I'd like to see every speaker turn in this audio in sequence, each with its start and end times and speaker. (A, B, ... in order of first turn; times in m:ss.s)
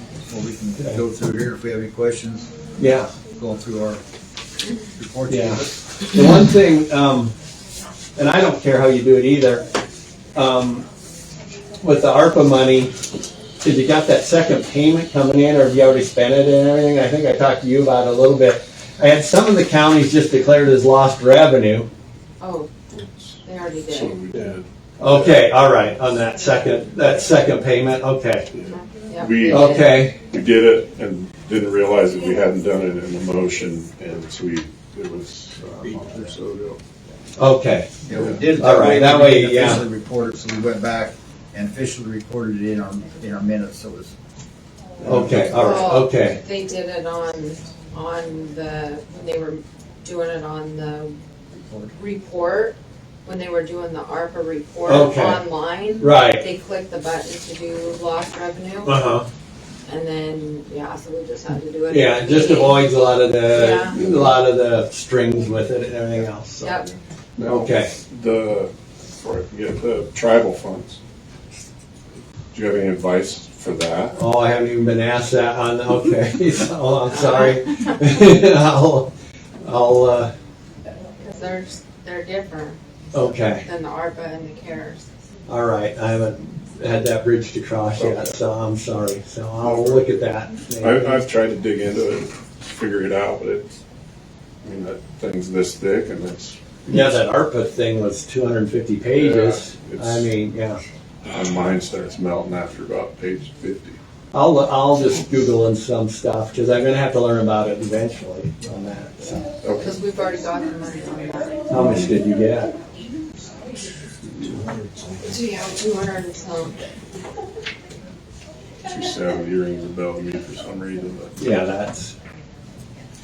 0:00.3-0:02.5 A
0:00.8-0:01.0 B
0:02.8-0:03.1 B
0:03.3-0:04.0 A
0:05.0-0:05.7 A
0:05.3-0:07.3 B
0:08.2-0:09.7 B
0:10.3-0:10.8 B
0:11.8-0:12.9 B
0:13.6-0:21.9 B
0:22.4-0:22.8 C
0:22.9-0:25.5 D
0:23.4-0:24.1 C
0:25.0-0:28.5 B
0:28.5-0:36.8 D
0:28.7-0:30.0 C
0:29.5-0:30.2 B
0:37.4-0:39.8 B
0:38.0-0:44.1 A
0:45.0-0:46.4 B
0:45.1-0:45.7 A
0:45.4-0:51.2 C
0:51.9-0:58.9 C
0:54.9-0:55.4 B
0:56.0-0:56.4 B
0:58.8-0:59.3 B
0:59.8-1:02.8 C
1:01.9-1:06.8 B
1:03.5-1:04.0 C
1:06.6-1:07.0 C
1:07.4-1:11.0 D
1:07.4-1:07.9 B
1:12.5-1:14.1 D
1:14.2-1:20.3 B
1:17.1-1:17.9 C
1:21.2-1:22.8 C
1:23.1-1:23.6 B
1:23.5-1:25.1 C
1:25.5-1:31.2 B
1:28.0-1:28.4 D
1:29.6-1:30.3 D
1:30.8-1:33.8 D
1:34.6-1:36.6 D
1:36.8-1:40.8 B
1:39.1-1:40.3 D
1:41.2-1:44.0 D
1:44.3-1:49.4 B
1:49.6-1:49.9 D
1:49.8-1:51.7 C
1:51.7-1:52.7 B
1:51.7-1:52.1 D
1:55.2-1:56.8 C
1:58.8-2:01.3 D
2:01.4-2:02.1 B